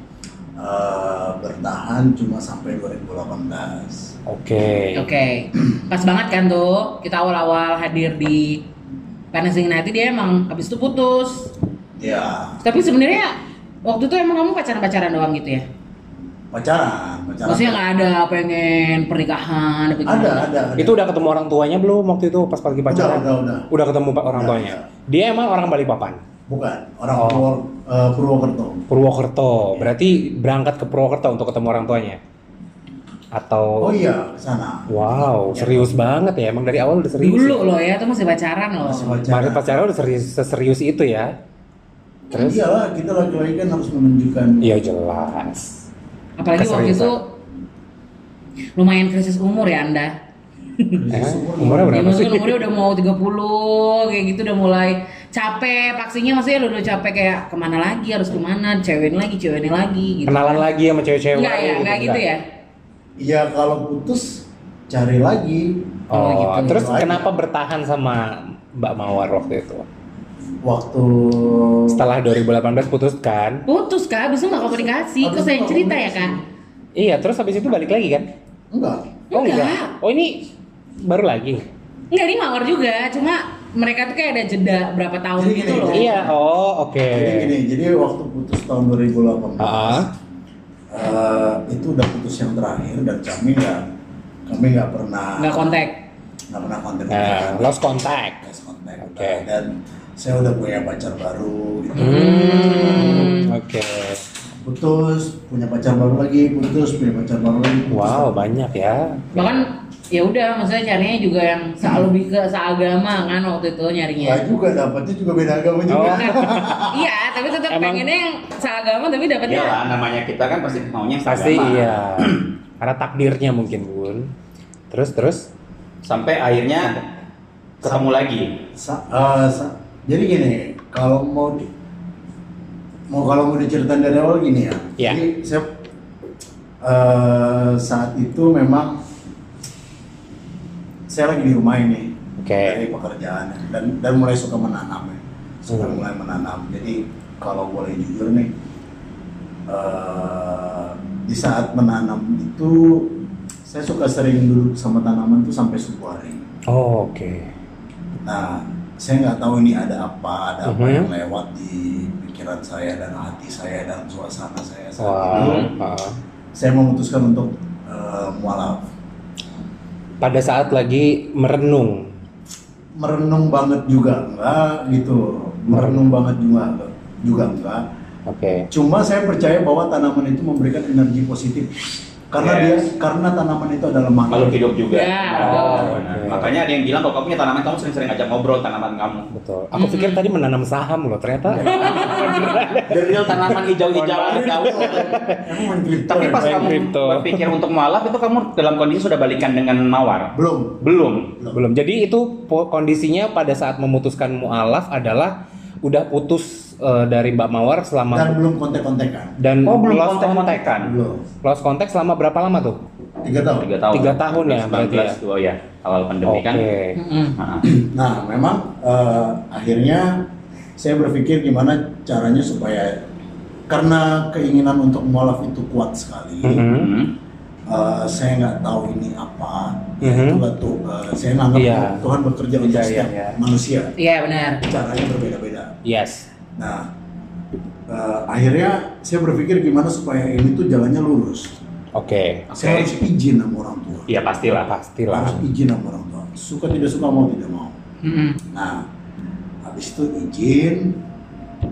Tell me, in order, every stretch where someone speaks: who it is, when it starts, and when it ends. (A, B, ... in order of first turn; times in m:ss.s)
0:00.6-0:04.1 A
0:04.3-0:05.1 B
0:04.9-0:08.6 C
0:09.3-0:11.5 C
0:12.0-0:12.6 A
0:12.6-0:15.6 C
0:16.5-0:17.8 A
0:17.4-0:20.5 C
0:20.0-0:21.0 A
0:20.8-0:26.2 B
0:22.9-0:23.7 A
0:24.3-0:24.9 A
0:26.5-0:28.9 A
0:27.2-0:27.5 B
0:28.9-0:32.2 B
0:29.7-0:29.9 A
0:33.3-0:33.9 B
0:33.8-0:35.9 A
0:34.9-0:37.7 B
0:37.2-0:39.2 C
0:38.8-0:39.8 A
0:39.3-0:41.3 B
0:42.3-0:44.7 A
0:42.3-0:42.6 B
0:44.6-0:45.8 B
0:46.4-0:47.3 C
0:46.6-0:47.2 B
0:48.8-0:50.1 C
0:50.9-0:52.1 A
0:51.1-0:52.6 B
0:51.9-1:00.6 C
1:00.3-1:02.2 B
1:01.3-1:02.4 C
1:03.2-1:06.0 A
1:06.1-1:09.9 B
1:06.1-1:06.9 C
1:06.6-1:07.3 A
1:10.6-1:12.0 A
1:11.9-1:13.6 B
1:13.6-1:16.4 C
1:14.5-1:16.4 A
1:17.0-1:18.3 B
1:18.7-1:19.1 A
1:19.3-1:19.9 C
1:19.3-1:20.5 B
1:21.0-1:21.6 B
1:22.1-1:26.1 C
1:25.4-1:26.4 A
1:25.9-1:27.5 B
1:27.1-1:30.1 A
1:29.6-1:30.1 B
1:30.9-1:33.8 A
1:34.5-1:35.6 A
1:35.4-1:36.0 C
1:36.5-1:43.2 A
1:37.1-1:38.4 B
1:39.0-1:39.4 B
1:42.0-1:43.5 C
1:42.0-1:44.2 B
1:44.6-1:48.5 A
1:47.9-1:49.6 B
1:49.3-1:54.4 C
1:54.2-1:57.1 A
1:55.9-1:56.6 B
1:56.0-1:59.8 C
1:57.7-1:58.0 B
1:59.5-2:02.5 D
2:01.3-2:04.3 B
2:04.9-2:05.5 B
2:06.0-2:07.0 D
2:07.8-2:08.6 D
2:08.8-2:11.7 A
2:13.1-2:15.8 A
2:16.8-2:19.0 A
2:21.1-2:28.5 A
2:22.4-2:22.8 B
2:25.7-2:26.0 B
2:29.7-2:36.4 A
2:36.7-2:37.5 B
2:38.2-2:45.7 A
2:40.6-2:41.1 B
2:45.0-2:46.2 B
2:45.3-2:45.7 D
2:46.6-2:48.9 A
2:50.2-2:52.1 B
2:53.0-2:57.8 A
2:55.7-2:56.1 B
2:58.3-2:58.7 B
2:58.7-3:01.7 A
3:02.3-3:04.7 A
3:02.4-3:02.9 D
3:04.3-3:09.3 D
3:04.9-3:06.0 C
3:05.4-3:06.6 B
3:09.3-3:15.6 B
3:09.8-3:10.2 C
3:11.5-3:12.1 A
3:11.6-3:15.2 D
3:11.6-3:12.6 C
3:12.9-3:16.8 A
3:16.1-3:21.3 D
3:16.2-3:17.5 B
3:20.4-3:20.8 A
3:21.4-3:21.6 A
3:21.5-3:28.4 B
3:28.1-3:29.4 A
3:29.4-3:30.7 B
3:29.6-3:31.0 D
3:30.8-3:31.2 A
3:31.4-3:32.8 B
3:33.2-3:33.7 A
3:33.6-3:36.6 D
3:33.9-3:35.2 B
3:36.2-3:37.0 B
3:37.0-3:37.4 C
3:37.4-3:37.7 D
3:37.6-3:43.0 A
3:43.7-3:46.7 A
3:46.4-3:46.9 B
3:46.7-3:47.1 D
3:47.7-3:53.9 A
3:50.0-3:50.4 B
3:51.5-3:52.1 B
3:52.6-3:53.4 B
3:54.0-3:54.6 C
3:54.6-3:55.7 A
3:55.8-3:56.2 B
3:56.6-3:56.9 A
3:57.9-4:01.6 A
4:02.0-4:02.5 B
4:02.5-4:02.9 D
4:02.6-4:04.1 A
4:04.1-4:04.7 D
4:04.7-4:05.4 B
4:05.1-4:07.8 A
4:08.0-4:08.4 C
4:08.5-4:08.9 A
4:09.6-4:11.0 A